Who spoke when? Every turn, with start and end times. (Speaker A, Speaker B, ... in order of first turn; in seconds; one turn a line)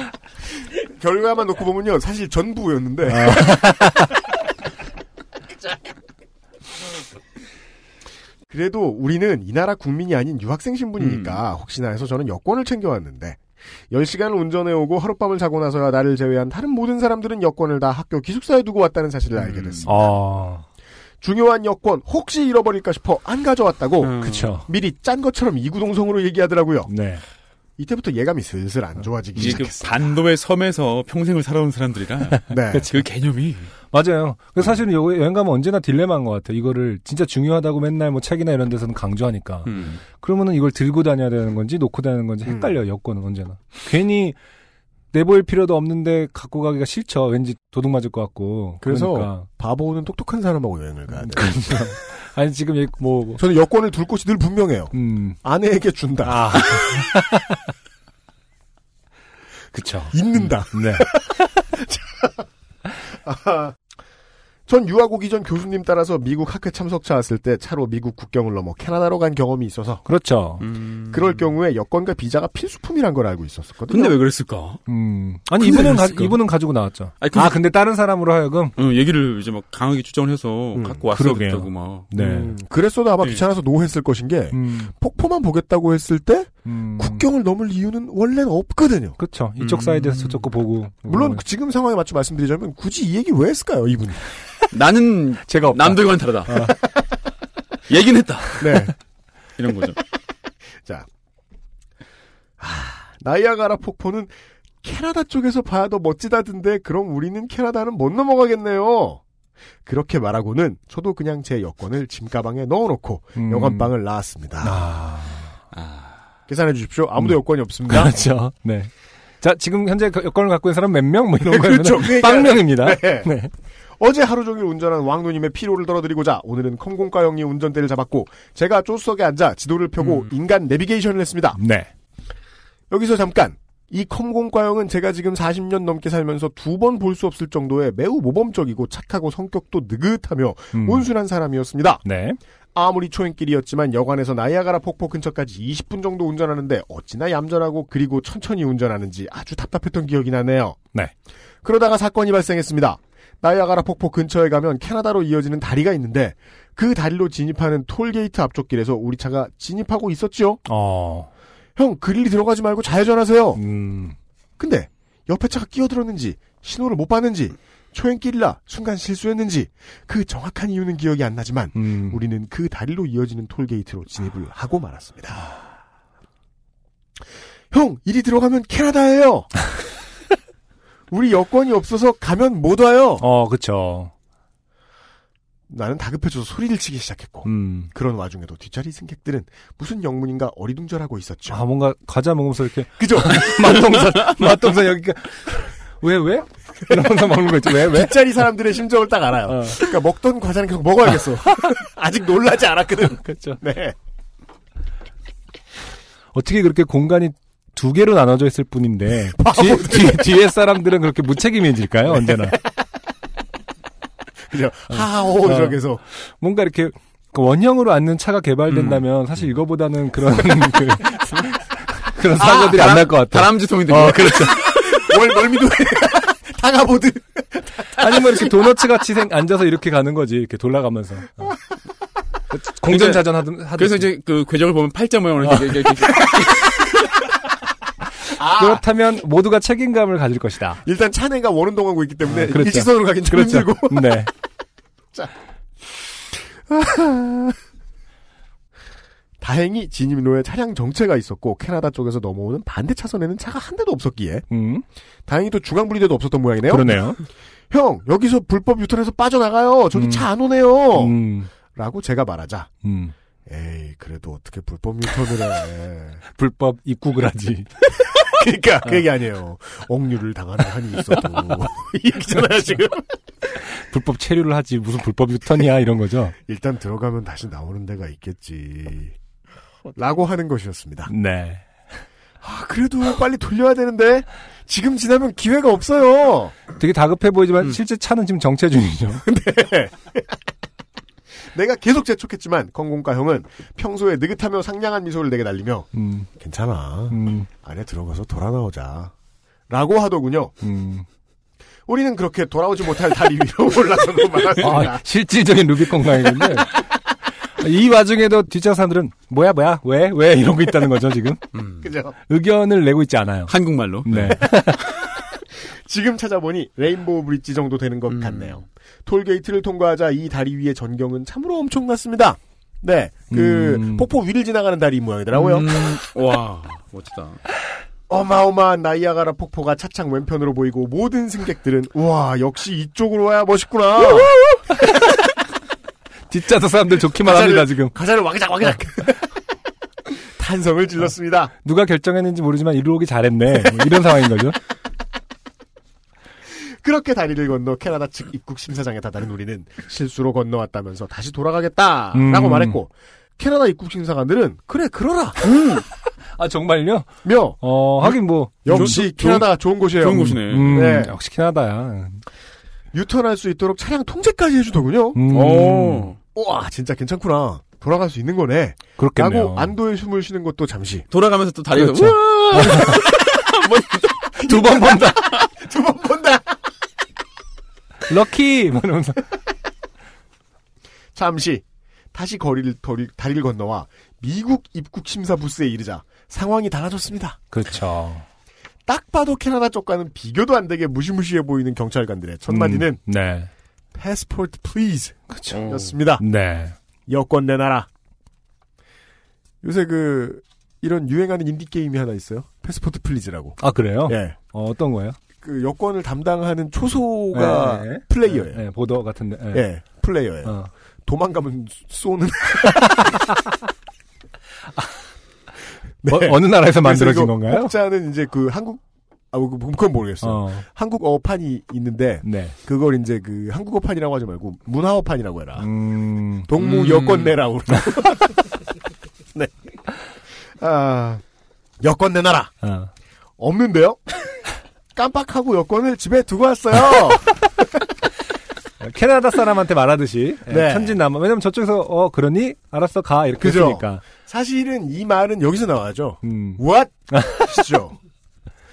Speaker A: 0.8-3.9
Speaker B: 3.1-4.1
Speaker A: 8.5-20.1
Speaker C: 11.0-11.4
Speaker C: 19.4-19.9
Speaker B: 19.9-20.6
Speaker A: 21.2-26.9
Speaker C: 24.0-24.5
Speaker B: 24.2-24.7
Speaker B: 26.9-27.2
Speaker A: 27.8-30.2
Speaker C: 29.4-33.7
Speaker B: 29.4-29.6
Speaker A: 32.5-33.0
Speaker B: 32.7-33.0
Speaker B: 33.9-44.4
Speaker C: 39.7-40.0
Speaker A: 42.5-42.8
Speaker B: 45.1-49.5
Speaker A: 48.8-51.7
Speaker B: 51.2-53.4
Speaker A: 53.4-57.0
Speaker B: 54.9-55.4
Speaker B: 56.2-57.6
Speaker B: 59.7-61.1
Speaker A: 60.1-62.4
Speaker A: 63.1-63.8
Speaker A: 64.7-70.0
Speaker B: 70.1-70.6
Speaker C: 70.6-71.5
Speaker A: 71.1-74.2
Speaker C: 73.9-74.8
Speaker B: 74.9-78.8
Speaker C: 75.6-76.4
Speaker C: 77.2-77.6
Speaker C: 78.8-82.1
Speaker A: 80.8-81.0
Speaker B: 81.1-82.5
Speaker A: 82.2-89.2
Speaker B: 84.5-84.9
Speaker B: 86.7-87.2
Speaker B: 89.2-91.4
Speaker C: 89.6-90.5
Speaker A: 91.0-94.3
Speaker C: 94.7-96.7
Speaker B: 95.5-96.8
Speaker C: 97.9-98.8
Speaker A: 98.6-98.9
Speaker C: 99.6-100.0
Speaker A: 102.6-109.2
Speaker A: 109.9-114.8
Speaker B: 113.4-113.9
Speaker B: 114.6-115.5
Speaker C: 115.7-116.2
Speaker A: 116.5-118.2
Speaker B: 117.9-123.5
Speaker A: 121.4-123.3
Speaker A: 124.0-131.6
Speaker C: 130.0-130.3
Speaker B: 131.6-131.9
Speaker A: 132.9-142.1
Speaker B: 140.7-141.1
Speaker B: 142.1-142.4
Speaker A: 142.8-150.8
Speaker A: 151.6-160.6
Speaker B: 160.7-161.3
Speaker A: 161.8-163.6
Speaker B: 163.6-164.2
Speaker A: 164.6-175.5
Speaker B: 171.8-172.2
Speaker A: 177.7-179.5
Speaker A: 181.1-183.2
Speaker B: 183.2-184.1
Speaker A: 185.7-191.6
Speaker B: 187.4-187.9
Speaker B: 191.5-198.3
Speaker A: 193.0-193.8
Speaker A: 196.9-203.9
Speaker B: 199.5-199.8
Speaker B: 203.2-203.6
Speaker B: 206.3-212.6
Speaker A: 209.4-210.3
Speaker A: 212.1-212.6
Speaker A: 214.5-216.0
Speaker B: 214.9-215.8
Speaker B: 216.4-224.7
Speaker C: 218.7-219.1
Speaker C: 222.4-225.0
Speaker A: 222.7-223.0
Speaker A: 224.4-228.5
Speaker B: 228.0-231.6
Speaker B: 232.5-234.1
Speaker C: 232.9-237.1
Speaker B: 235.4-235.8
Speaker A: 238.3-238.8
Speaker B: 238.5-240.8
Speaker A: 240.8-244.3
Speaker B: 242.3-244.3
Speaker A: 246.6-247.6
Speaker A: 249.4-254.5
Speaker B: 254.5-254.8
Speaker A: 255.3-262.7
Speaker B: 256.7-257.2
Speaker B: 259.9-260.3
Speaker B: 260.9-261.5
Speaker B: 262.8-263.1
Speaker A: 263.5-266.2
Speaker B: 266.4-267.7
Speaker A: 268.0-273.1
Speaker B: 273.7-276.4
Speaker A: 276.5-279.2
Speaker A: 279.9-281.1
Speaker B: 281.1-281.7
Speaker A: 282.4-286.6
Speaker B: 286.8-289.2
Speaker A: 289.2-290.3
Speaker A: 291.5-299.1
Speaker B: 295.9-296.3
Speaker B: 297.1-297.5
Speaker A: 299.7-300.5
Speaker B: 300.6-301.1
Speaker A: 301.9-305.0
Speaker B: 304.6-306.8
Speaker A: 306.1-306.6
Speaker B: 307.6-311.5
Speaker C: 311.5-311.9
Speaker A: 311.8-312.1
Speaker B: 312.3-313.5
Speaker C: 313.5-314.6
Speaker B: 314.1-314.9
Speaker A: 315.7-325.9
Speaker C: 318.1-318.6
Speaker B: 323.3-324.1
Speaker C: 325.3-327.4
Speaker A: 328.1-334.4
Speaker B: 334.4-335.0
Speaker B: 336.3-337.9
Speaker A: 337.1-339.2
Speaker A: 340.4-341.5
Speaker B: 341.6-344.6
Speaker A: 346.6-355.4
Speaker B: 352.1-352.8
Speaker C: 355.4-355.8
Speaker B: 356.4-359.4
Speaker A: 357.2-361.1
Speaker C: 358.7-361.0
Speaker B: 360.1-362.2
Speaker A: 362.9-365.3
Speaker B: 365.1-366.1
Speaker C: 365.3-366.2
Speaker A: 366.3-371.1
Speaker B: 369.0-369.7
Speaker C: 371.1-374.6
Speaker B: 371.8-373.0
Speaker B: 374.4-375.3
Speaker A: 374.6-376.6
Speaker B: 378.1-379.2
Speaker A: 381.1-387.4
Speaker B: 387.5-388.2
Speaker A: 388.9-393.0
Speaker B: 392.5-393.5
Speaker A: 393.9-396.2
Speaker B: 395.3-395.6
Speaker C: 395.5-396.0
Speaker B: 396.2-396.8
Speaker A: 397.1-397.9
Speaker A: 399.6-404.4
Speaker B: 403.6-405.2
Speaker A: 405.4-408.6
Speaker B: 407.3-409.7
Speaker A: 409.5-410.6
Speaker B: 410.4-410.7
Speaker A: 411.1-413.3
Speaker A: 416.0-425.7
Speaker B: 416.1-417.7
Speaker B: 420.2-420.6
Speaker B: 422.2-422.6
Speaker B: 425.6-426.5
Speaker A: 426.5-428.5
Speaker C: 426.6-427.4
Speaker A: 430.5-431.2
Speaker A: 431.8-432.6
Speaker B: 432.6-432.9
Speaker A: 433.4-434.1
Speaker A: 434.9-437.7
Speaker B: 438.8-444.0
Speaker A: 440.5-441.0
Speaker A: 443.4-448.0
Speaker B: 446.2-447.7